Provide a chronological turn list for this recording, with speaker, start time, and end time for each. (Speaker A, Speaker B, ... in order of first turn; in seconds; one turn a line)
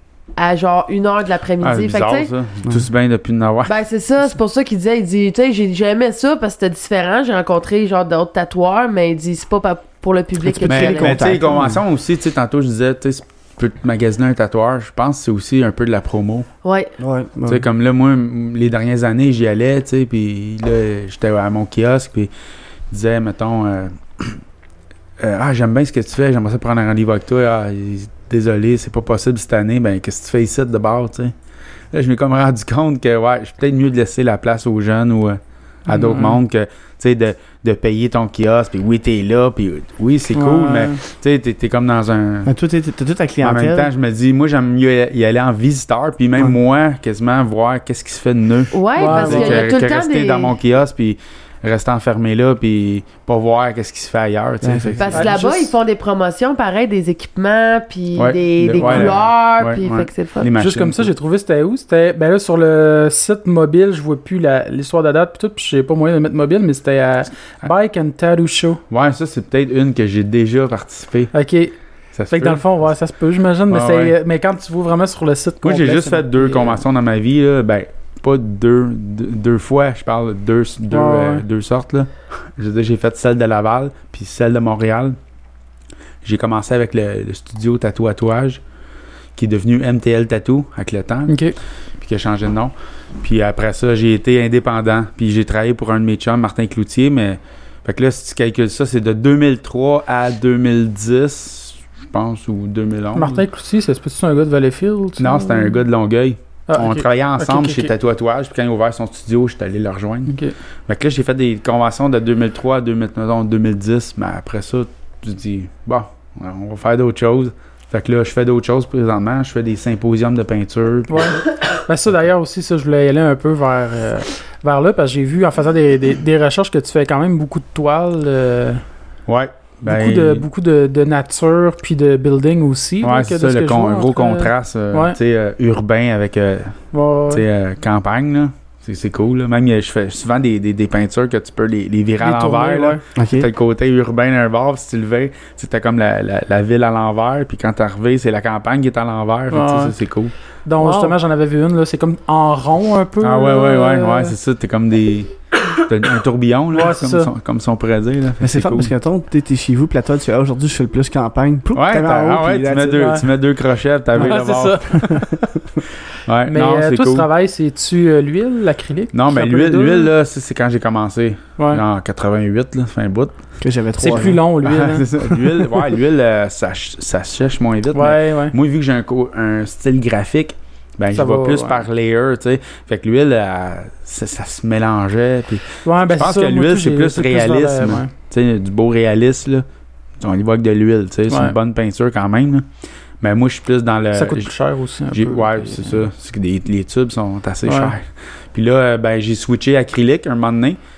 Speaker A: 0.4-2.3
Speaker B: 1.6-3.7
Speaker A: 3.6-11.2
Speaker C: 10.4-11.8
Speaker B: 10.6-16.5
Speaker A: 16.6-16.9
Speaker C: 17.0-17.6
Speaker B: 17.5-22.3
Speaker B: 22.9-24.4
Speaker B: 25.2-31.3
Speaker B: 31.9-42.5
Speaker D: 35.9-36.4
Speaker D: 40.3-41.0
Speaker C: 42.5-43.9
Speaker B: 43.4-55.3
Speaker A: 48.7-50.5
Speaker D: 49.0-49.6
Speaker C: 54.6-55.1
Speaker A: 55.0-60.5
Speaker D: 55.1-55.7
Speaker B: 58.1-61.1
Speaker D: 58.8-59.1
Speaker D: 60.6-68.8
Speaker B: 68.9-71.3
Speaker D: 71.3-71.7
Speaker B: 72.2-72.6
Speaker D: 72.3-76.8
Speaker B: 73.7-74.1
Speaker B: 75.6-85.2
Speaker D: 80.9-81.4
Speaker B: 86.2-88.6
Speaker B: 89.4-91.4
Speaker D: 91.3-91.5
Speaker B: 92.0-103.4
Speaker D: 103.1-105.4
Speaker B: 105.2-121.4
Speaker A: 105.4-105.6
Speaker D: 106.7-107.9
Speaker D: 121.1-128.8
Speaker B: 129.3-130.4
Speaker D: 129.9-135.2
Speaker B: 133.0-150.3
Speaker D: 136.9-137.4
Speaker D: 142.2-143.0
Speaker C: 143.2-143.5
Speaker D: 149.5-149.9
Speaker D: 150.6-154.3
Speaker A: 150.8-151.1
Speaker B: 153.2-158.9
Speaker D: 156.7-157.3
Speaker C: 158.4-163.0
Speaker B: 161.7-164.9
Speaker D: 163.0-163.2
Speaker D: 164.2-165.3
Speaker B: 166.2-167.3
Speaker D: 166.5-170.1
Speaker B: 169.1-173.3
Speaker C: 173.6-174.4
Speaker D: 174.0-175.7
Speaker B: 174.6-189.6
Speaker D: 177.9-178.5
Speaker D: 181.1-181.8
Speaker D: 185.8-188.1
Speaker B: 190.2-192.7
Speaker D: 191.3-191.5
Speaker B: 193.2-194.5
Speaker D: 194.1-196.0
Speaker B: 195.1-200.8
Speaker D: 197.7-197.9